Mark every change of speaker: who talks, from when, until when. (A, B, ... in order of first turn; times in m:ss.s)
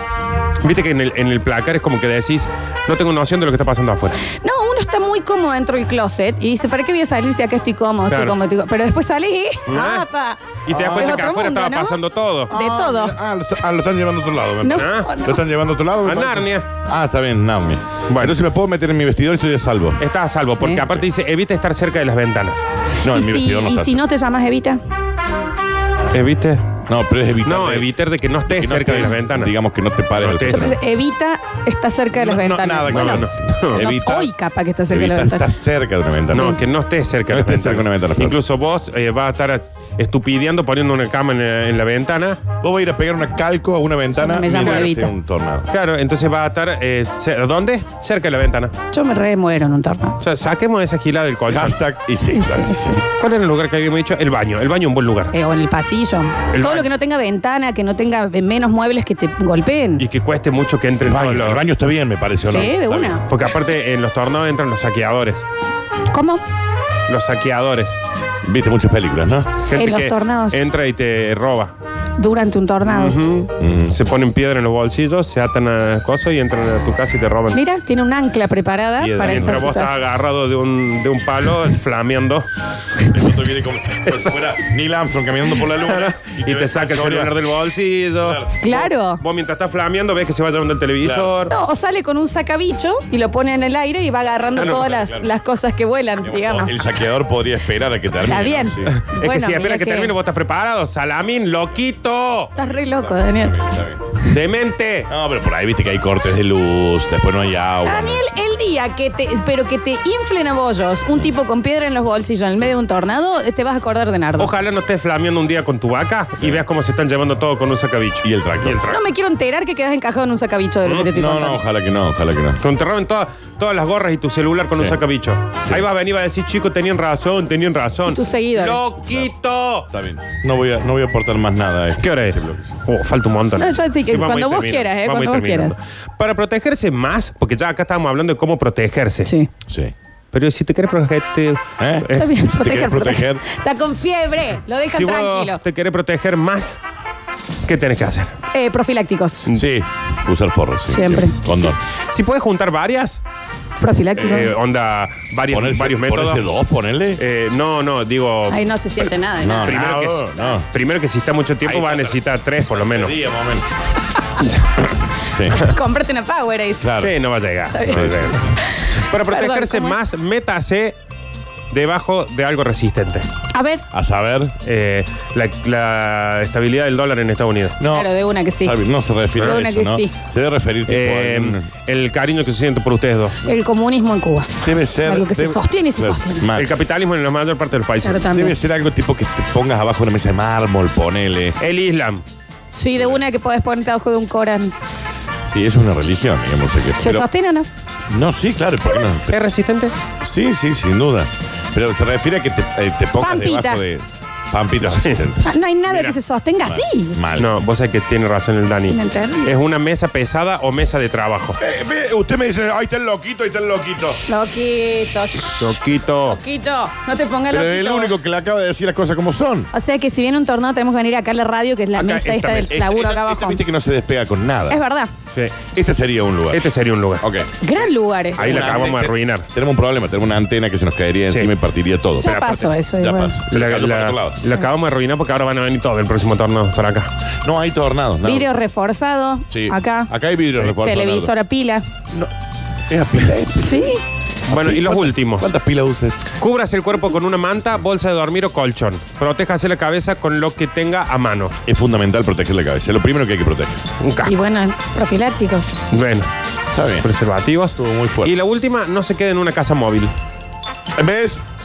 0:00.6-0:04.2 A
0:04.3-0:13.2 B
0:08.1-0:08.4 A
0:09.7-0:10.1 A
0:10.7-0:12.5 A
0:10.7-0:11.3 C
0:12.5-0:20.0 C
0:14.6-0:15.4 B
0:14.7-0:15.1 A
0:16.0-0:16.7 A
0:18.1-0:18.4 A
0:20.0-0:22.6 A
0:20.5-0:20.8 B
0:23.0-0:24.0 C
0:23.1-0:24.8 B
0:26.1-0:26.7 A
0:26.9-0:27.9 C
0:27.4-0:29.5 A
0:28.5-0:30.8 C
0:30.2-0:30.8 A
0:30.5-0:35.5 B
0:32.1-0:34.3 C
0:32.9-0:33.9 A
0:34.9-0:36.6 C
0:36.3-0:42.4 A
0:37.3-0:38.4 C
0:42.6-0:45.7 C
0:44.1-0:45.1 B
0:44.6-0:44.9 A
0:45.7-0:48.7 A
0:48.9-0:50.2 B
0:50.2-0:51.8 A
0:51.5-0:53.0 C
0:52.3-0:53.0 B
0:53.1-0:55.3 A
0:55.3-1:00.1 B
0:56.5-0:56.9 A
1:00.0-1:01.6 A
1:01.0-1:03.2 C
1:02.4-1:03.2 B
1:03.3-1:05.5 A
1:06.1-1:06.4 B
1:07.1-1:08.0 A
1:08.4-1:09.6 C
1:09.6-1:11.7 A
1:09.8-1:10.6 B
1:12.2-1:13.2 B
1:12.8-1:17.6 A
1:13.6-1:13.9 C
1:17.5-1:20.0 B
1:19.0-1:19.8 C
1:19.2-1:22.5 A
1:23.1-1:27.4 C
1:25.7-1:31.5 A
1:28.2-1:28.5 C
1:28.6-1:29.2 B
1:31.0-1:31.3 C
1:31.5-1:36.8 B
1:34.6-1:35.3 C
1:34.6-1:34.8 A
1:36.2-1:38.9 C
1:38.2-1:40.1 B
1:38.9-1:42.5 A
1:42.6-1:43.6 B
1:42.7-1:44.0 C
1:44.2-1:45.1 A
1:45.1-1:48.2 C
1:47.8-1:54.6 B
1:54.4-1:59.0 A
1:56.4-1:56.6 C
1:58.2-1:58.8 C
1:58.9-2:01.6 B
2:00.8-2:01.1 A
2:01.2-2:02.6 C
2:02.6-2:09.9 A
2:04.7-2:05.0 C
2:05.6-2:05.9 C
2:08.1-2:08.9 B
2:09.9-2:12.8 C
2:12.0-2:19.3 A
2:13.6-2:15.8 B
2:19.2-2:19.5 B
2:19.7-2:19.9 C
2:20.3-2:22.3 A
2:21.8-2:23.4 C
2:22.1-2:25.6 B
2:24.9-2:26.8 A
2:27.7-2:28.3 A
2:28.5-2:29.5 B
2:29.5-2:31.8 C
2:30.9-2:31.5 B
2:32.1-2:33.2 A
2:33.8-2:34.6 B
2:34.2-2:36.5 A
2:35.5-2:37.2 C
2:37.2-2:38.6 A
2:38.5-2:39.8 B
2:39.4-2:40.7 C
2:39.6-2:43.1 A
2:41.6-2:43.7 C
2:45.2-2:45.6 C
2:45.5-2:47.0 B
2:46.8-2:47.1 C
2:47.0-2:51.0 A
2:47.8-2:50.0 B
2:47.9-2:48.3 C
2:51.7-2:53.3 A
2:53.5-2:53.8 B
2:53.9-2:54.5 C
2:54.6-2:57.8 A
2:57.8-2:58.1 C
2:57.9-2:58.8 B
2:58.6-3:01.7 C
2:59.4-2:59.6 A
2:59.4-3:00.1 B
3:00.9-3:03.4 A
3:03.4-3:04.5 B
3:04.6-3:06.7 C
3:05.0-3:06.5 B
3:06.6-3:08.3 A
3:08.0-3:08.6 B
3:08.3-3:11.6 C
3:11.6-3:12.2 A
3:12.7-3:14.7 B
3:13.0-3:13.2 C
3:15.4-3:17.3 C
3:17.0-3:17.7 B
3:18.1-3:19.4 C
3:19.3-3:20.0 A
3:20.2-3:25.5 C
3:23.2-3:23.8 B
3:25.4-3:27.2 B
3:25.9-3:26.2 A
3:26.6-3:27.5 C
3:27.4-3:31.6 A
3:28.7-3:29.6 B
3:31.6-3:34.2 C
3:34.3-3:38.2 B
3:35.6-3:36.4 A
3:37.5-3:39.7 C
3:39.7-3:43.6 B
3:42.0-3:42.8 A
3:42.7-3:44.8 C
3:44.7-3:45.1 B
3:45.7-3:46.6 C
3:46.5-3:47.2 A
3:47.2-3:47.5 C
3:47.6-3:48.8 B
3:48.4-3:52.3 C
3:48.4-3:49.5 A
3:52.2-3:52.7 A
3:52.2-3:53.4 B
3:53.0-3:54.4 C
3:53.5-3:57.1 A
3:57.4-3:58.5 C
3:58.2-4:01.9 B
3:59.5-4:01.3 C
4:02.9-4:03.9 C
4:03.6-4:04.0 B
4:04.5-4:05.5 A
4:04.5-4:06.2 C
4:06.4-4:11.6 A
4:11.7-4:13.8 C
4:14.0-4:14.4 A
4:14.2-4:15.7 B
4:15.9-4:16.3 A
4:16.7-4:17.1 C
4:17.0-4:20.1 A
4:17.8-4:18.3 C
4:21.0-4:21.4 C